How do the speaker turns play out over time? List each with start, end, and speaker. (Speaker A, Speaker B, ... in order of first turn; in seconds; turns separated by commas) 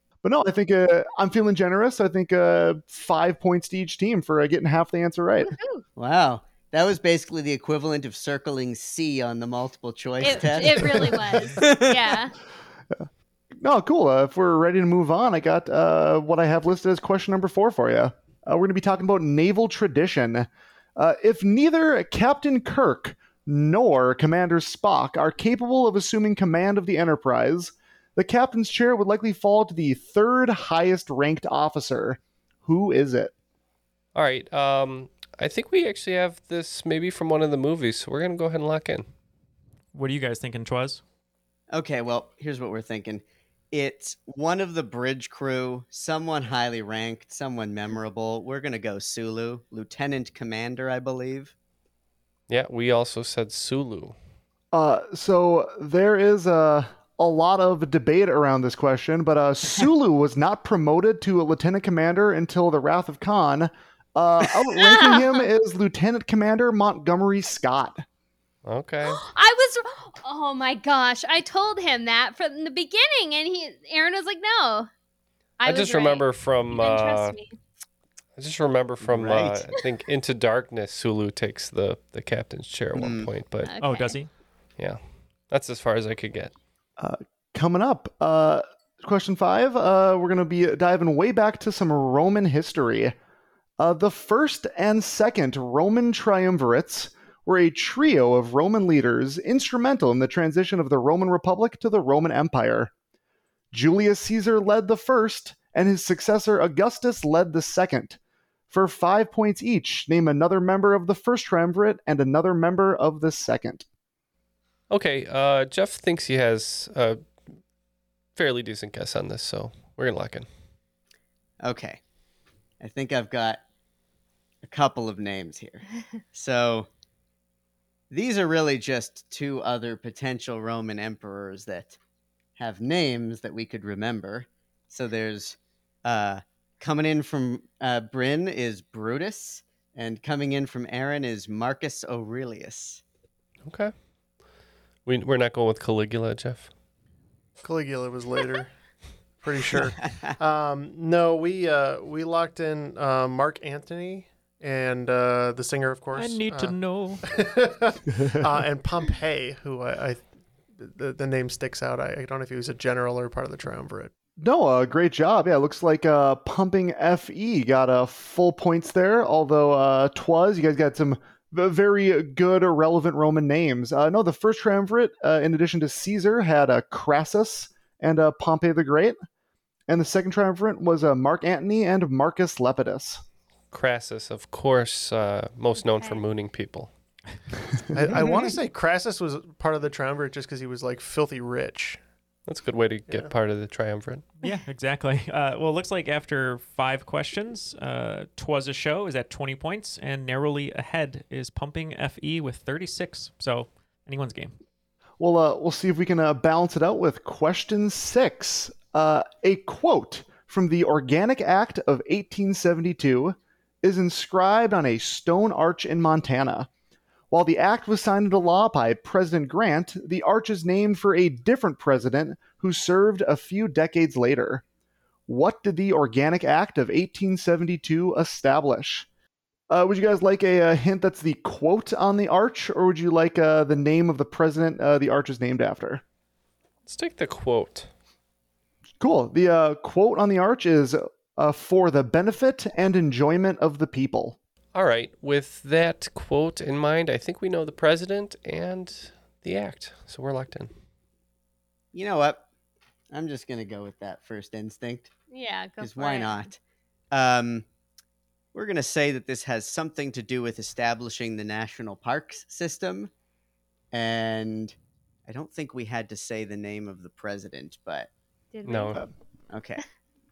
Speaker A: 0.2-5.5, Speaker B: 5.5-5.8, Speaker C: 6.0-12.2, Speaker B: 10.2-12.3, Speaker A: 13.6-33.3, Speaker D: 34.1-39.1, Speaker E: 39.9-41.0, Speaker C: 41.7-51.5, Speaker D: 52.5-54.2, Speaker A: 54.7-68.0, Speaker B: 64.8-65.5, Speaker D: 68.7-69.2, Speaker B: 69.2-74.9, Speaker D: 75.6-77.4, Speaker B: 75.6-77.5, Speaker D: 78.4-83.7, Speaker C: 79.0-79.7, Speaker C: 83.0-83.3, Speaker B: 83.6-84.2, Speaker E: 83.8-84.3, Speaker D: 84.8-86.5, Speaker A: 87.0-93.2, Speaker A: 93.8-102.9, Speaker A: 103.7-108.2, Speaker A: 108.7-113.9, Speaker D: 114.9-117.3, Speaker D: 118.3-120.5, Speaker C: 121.6-122.0, Speaker C: 122.8-123.6, Speaker C: 124.6-126.9, Speaker C: 128.1-132.0, Speaker C: 132.6-143.0, Speaker D: 143.7-143.9, Speaker D: 145.1-146.7, Speaker F: 147.6-148.8, Speaker F: 149.4-164.1, Speaker C: 150.0-150.4, Speaker E: 156.2-157.2, Speaker A: 158.2-158.5, Speaker A: 164.4-179.2, Speaker A: 179.9-183.2, Speaker D: 183.7-186.9, Speaker B: 185.8-186.2, Speaker A: 187.9-188.2, Speaker F: 187.9-192.0, Speaker C: 188.1-188.5, Speaker D: 192.5-194.2, Speaker F: 193.1-193.3, Speaker E: 194.4-204.6, Speaker A: 205.2-216.7, Speaker A: 217.3-224.6, Speaker A: 225.3-229.1, Speaker A: 229.7-236.0, Speaker D: 236.9-237.9, Speaker A: 239.0-244.4, Speaker D: 244.7-250.7, Speaker C: 251.9-252.5, Speaker C: 253.1-255.1, Speaker B: 255.3-256.5, Speaker C: 255.8-256.6, Speaker C: 257.1-257.7, Speaker C: 258.5-263.1, Speaker C: 263.9-264.8, Speaker C: 265.3-268.1, Speaker B: 268.5-269.0, Speaker D: 268.7-269.0, Speaker C: 269.5-269.8